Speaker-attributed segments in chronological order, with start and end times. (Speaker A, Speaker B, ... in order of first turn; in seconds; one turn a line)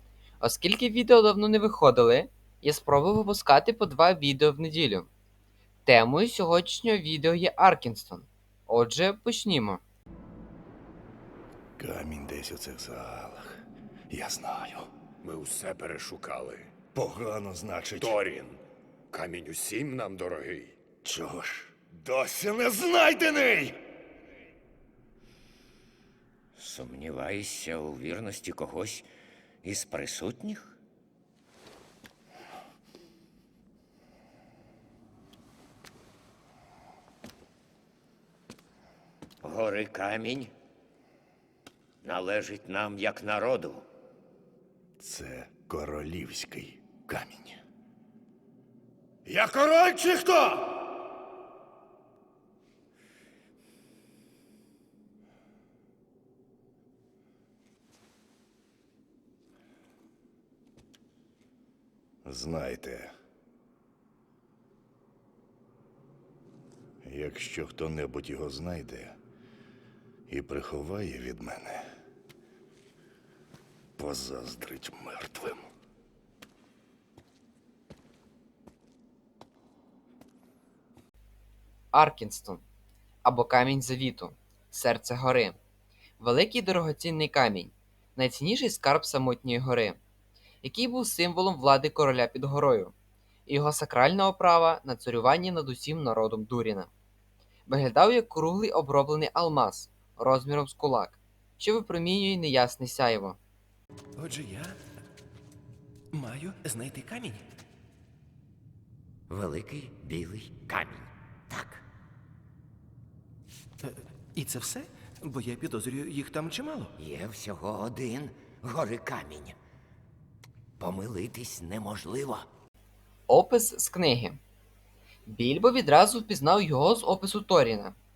Speaker A: 0.4-5.1
Speaker A: 5.8-9.8
Speaker B: 11.8-14.9
Speaker C: 15.2-16.7
Speaker B: 16.9-18.2
Speaker C: 18.0-20.8
Speaker B: 21.0-23.8
Speaker D: 26.6-29.1
Speaker D: 29.6-30.7
Speaker D: 39.4-40.5
Speaker D: 42.0-43.8
Speaker B: 45.0-47.6
Speaker B: 49.3-50.8
Speaker B: 62.2-63.1
Speaker B: 67.0-69.2
Speaker B: 70.3-71.8
Speaker B: 74.0-75.7
Speaker A: 81.9-82.6
Speaker A: 83.2-85.5
Speaker A: 86.2-90.0
Speaker A: 90.6-92.9
Speaker A: 93.5-96.9
Speaker A: 97.7-103.4
Speaker E: 104.2-104.8
Speaker E: 106.1-107.5
Speaker D: 109.3-111.8
Speaker E: 113.8-116.9
Speaker D: 117.0-119.5
Speaker D: 120.8-122.5
Speaker A: 123.3-124.4
Speaker A: 125.3-127.9